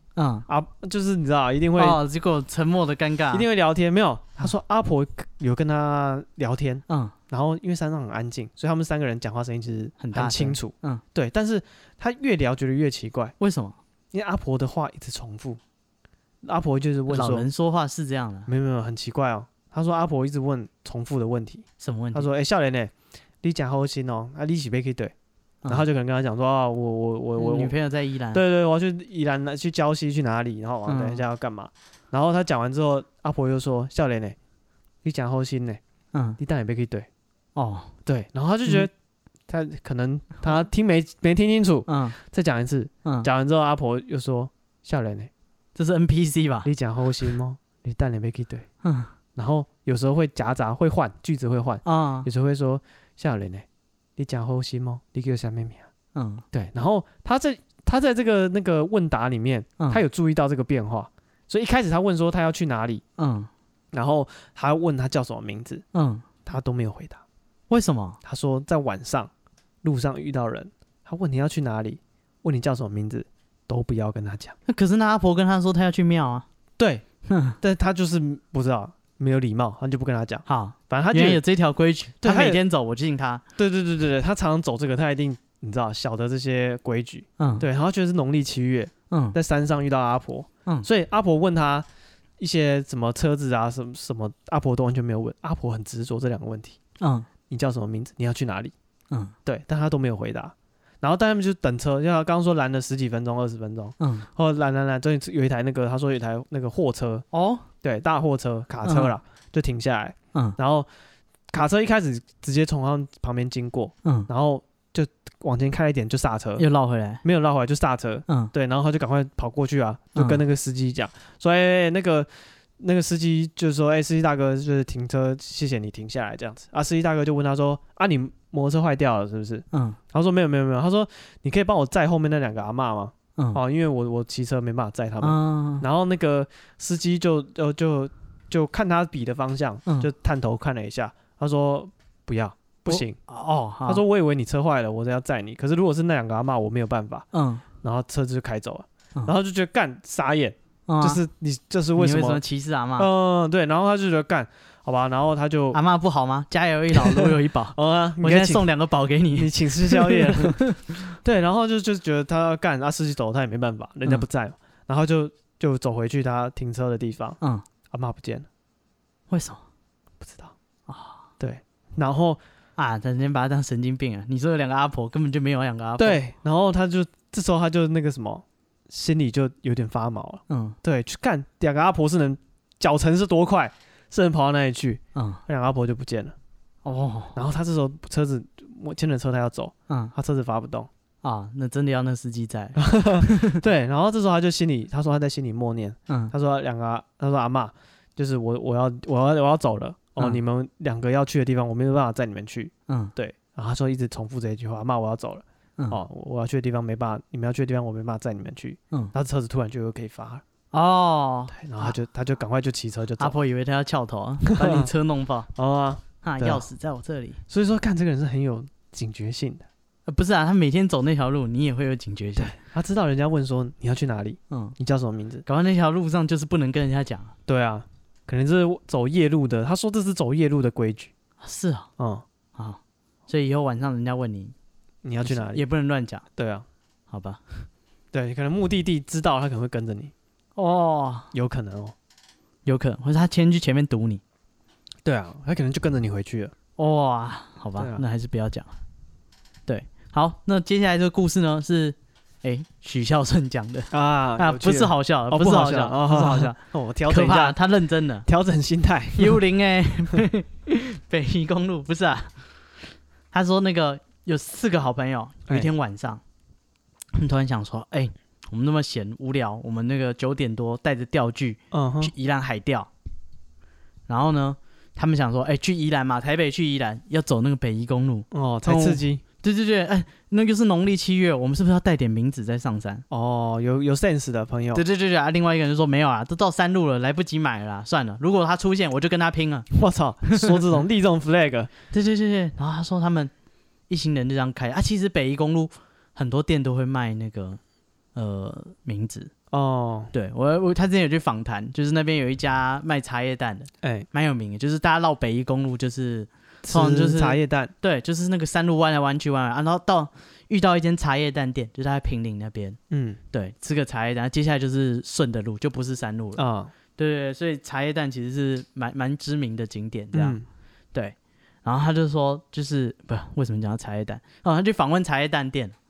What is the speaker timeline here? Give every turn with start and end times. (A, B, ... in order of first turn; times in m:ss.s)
0:00.2-0:00.4 A
0:00.5-0:02.0 B
0:01.8-0:03.4 A
0:03.3-0:13.3 B
0:06.9-0:07.1 A
0:10.0-0:11.0 A
0:13.4-0:13.8 A
0:14.1-0:15.6 B
0:16.4-0:17.5 B
0:17.1-0:18.5 A
0:18.5-0:22.9 B
0:21.8-0:22.3 A
0:23.4-0:25.1 B
0:25.7-0:27.7 B
0:27.4-0:28.4 A
0:28.3-0:34.4 B
0:30.9-0:31.2 A
0:35.0-0:35.8 B
0:36.1-0:36.4 A
0:36.4-0:37.1 B
0:37.6-0:37.9 A
0:38.0-0:38.9 B
0:39.5-0:45.3 B
0:41.9-0:42.2 A
0:45.7-0:46.7 A
0:46.6-0:48.7 B
0:48.8-0:49.1 A
0:49.4-0:53.6 B
0:51.8-0:52.3 A
0:54.2-0:55.9 B
0:56.1-0:56.4 A
0:56.5-1:03.0 B
1:03.2-1:03.5 A
1:03.9-1:05.8 B
1:05.9-1:06.2 A
1:06.4-1:07.2 B
1:07.7-1:08.2 A
1:08.2-1:09.3 B
1:09.8-1:14.5 B
1:14.6-1:16.4 A
1:16.8-1:17.0 B
1:17.3-1:17.6 A
1:17.6-1:21.4 B
1:20.5-1:23.4 A
1:22.2-1:22.6 B
1:23.6-1:31.8 B
1:27.4-1:27.6 A
1:29.1-1:29.4 A
1:32.4-1:36.8 B
1:37.0-1:37.3 A
1:37.5-1:38.7 B
1:39.4-1:47.2 B
1:44.0-1:44.3 A
1:47.3-1:47.6 A
1:47.8-1:50.9 B
1:48.8-1:49.1 A
1:51.5-1:56.6 B
1:54.0-1:54.3 A
1:56.6-1:57.2 A
1:57.2-2:23.2 B
2:00.1-2:00.4 A
2:09.7-2:10.0 A
2:13.4-2:13.6 A
2:15.2-2:15.8 A
2:22.9-2:24.0 A
2:23.8-2:27.2 B
2:27.3-2:27.6 A
2:27.8-2:32.4 B
2:30.9-2:31.2 A
2:32.0-2:33.1 A
2:33.0-2:35.8 B
2:35.7-2:41.1 A
2:36.9-2:38.7 B
2:39.3-2:40.6 B
2:41.2-2:47.4 B
2:47.9-2:48.5 B
2:49.3-2:49.6 A
2:50.2-2:50.5 B
2:50.9-2:51.2 A
2:51.4-2:52.4 B
2:52.8-2:56.2 A
2:56.0-3:06.3 B
3:00.5-3:00.8 A
3:05.1-3:05.4 A
3:06.8-3:07.4 A
3:07.3-3:10.9 B
3:09.9-3:10.1 A
3:11.2-3:13.6 A
3:12.8-3:30.4 B
3:22.9-3:23.1 A
3:30.7-3:32.0 A
3:31.5-3:33.4 B
3:33.2-3:35.5 A
3:34.5-3:34.9 B
3:35.6-3:36.6 B
3:36.2-3:37.4 A
3:37.5-3:39.6 B
3:40.1-3:42.6 A
3:42.4-3:45.4 B
3:44.5-3:44.8 A
3:45.4-3:47.3 A
3:47.5-3:51.1 B
3:51.4-3:51.9 A
3:52.0-3:52.2 B
3:52.5-3:54.5 A
3:55.0-3:55.6 B
3:55.2-3:56.2 A
3:56.4-3:56.6 B
3:57.1-3:57.7 A
3:58.1-4:00.1 B
4:00.6-4:01.3 A
4:01.3-4:01.9 B
4:02.6-4:04.2 A
4:05.0-4:06.5 B
4:06.8-4:08.7 A
4:07.8-4:08.0 B
4:09.7-4:18.2 A
4:13.9-4:17.6 B
4:18.2-4:19.4 B
4:19.2-4:22.4 A
4:23.3-4:26.2 A
4:27.2-4:32.9 A
4:31.7-4:32.1 B
4:34.1-4:43.0 A
4:38.3-4:39.2 B
4:43.1-4:44.8 B
4:44.7-4:49.7 A
4:49.7-4:51.7 B
4:50.3-4:50.6 A
4:51.9-4:53.3 A
4:53.9-4:57.6 A
4:58.1-4:59.3 A
4:59.5-5:00.1 B
5:00.1-5:12.8 A
5:03.8-5:04.1 B
5:06.6-5:07.7 B
5:12.9-5:13.2 B
5:13.3-5:16.4 A
5:16.4-5:16.7 B
5:17.0-5:20.4 A
5:20.1-5:20.4 B
5:20.9-5:25.7 A